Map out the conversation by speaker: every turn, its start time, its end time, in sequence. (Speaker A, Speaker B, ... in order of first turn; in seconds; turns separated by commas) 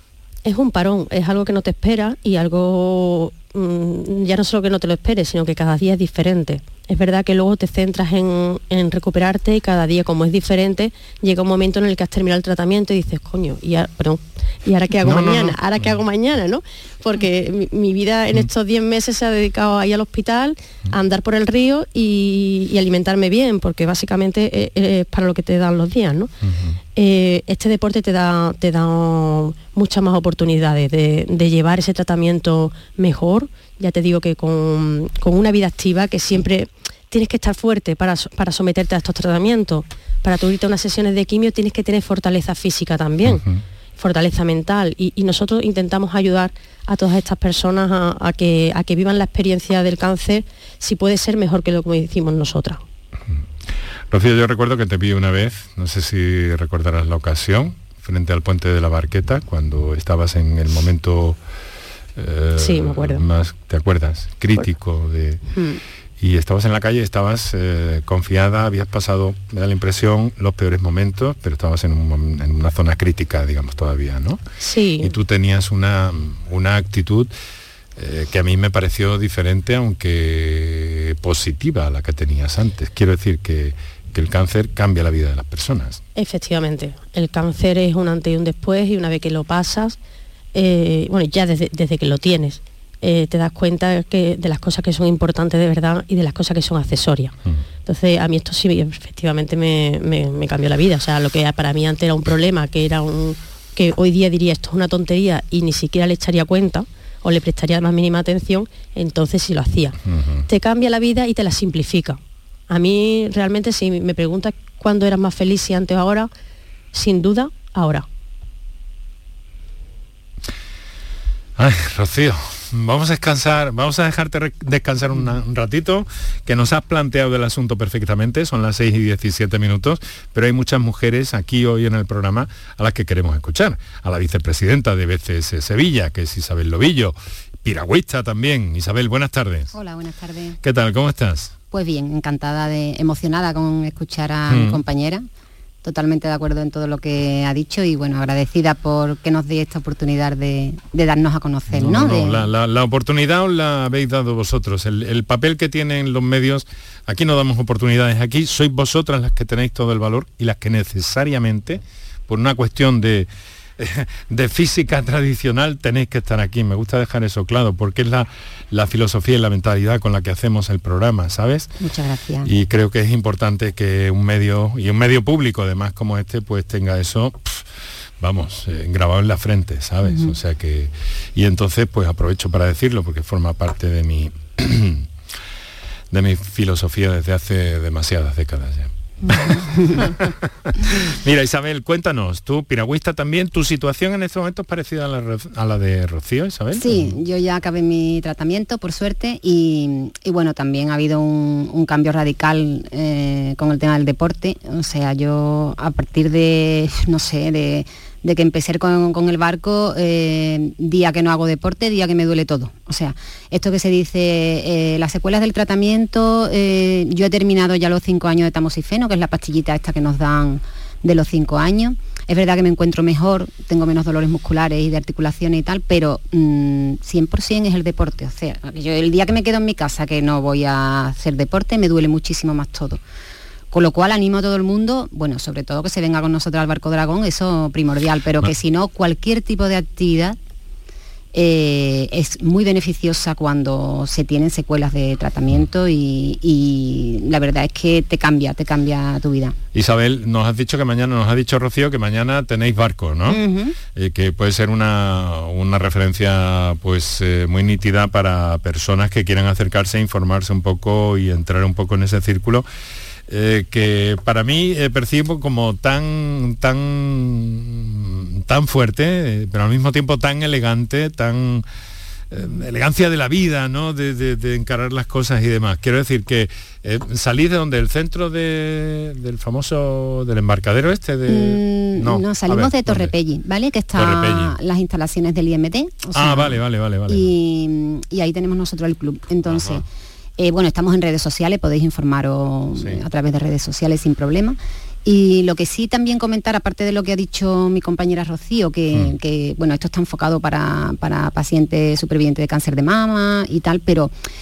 Speaker A: 0.4-26.3, Speaker B: 15.0-15.8, Speaker B: 26.4-26.8, Speaker A: 26.9-43.4, Speaker B: 43.2-43.6, Speaker A: 44.0-52.8, Speaker B: 54.1-61.4, Speaker B: 62.1-65.4, Speaker A: 62.6-63.2, Speaker A: 65.5-65.8, Speaker B: 66.2-74.4, Speaker A: 74.6-75.1, Speaker B: 75.0-77.3, Speaker B: 78.0-86.0, Speaker A: 86.2-90.0, Speaker A: 90.5-97.3, Speaker A: 97.8-116.3, Speaker B: 110.1-110.4, Speaker A: 116.9-118.0, Speaker B: 121.6-139.7, Speaker C: 139.7-140.6, Speaker B: 140.6-141.5, Speaker C: 141.7-145.2, Speaker B: 144.5-144.8, Speaker C: 145.8-152.5, Speaker B: 151.7-171.7, Speaker C: 171.8-172.5, Speaker B: 172.4-177.6, Speaker B: 178.2-185.1, Speaker C: 180.0-180.3, Speaker B: 186.1-197.1, Speaker C: 189.2-190.1, Speaker C: 196.7-233.0, Speaker C: 233.7-240.4, Speaker C: 241.3-249.6, Speaker B: 249.7-253.4, Speaker C: 253.3-253.8, Speaker B: 253.9-262.6, Speaker B: 263.3-271.6, Speaker B: 272.3-283.1, Speaker C: 281.3-289.8, Speaker B: 283.9-284.5, Speaker B: 286.1-287.3, Speaker B: 289.5-289.8, Speaker C: 290.4-304.1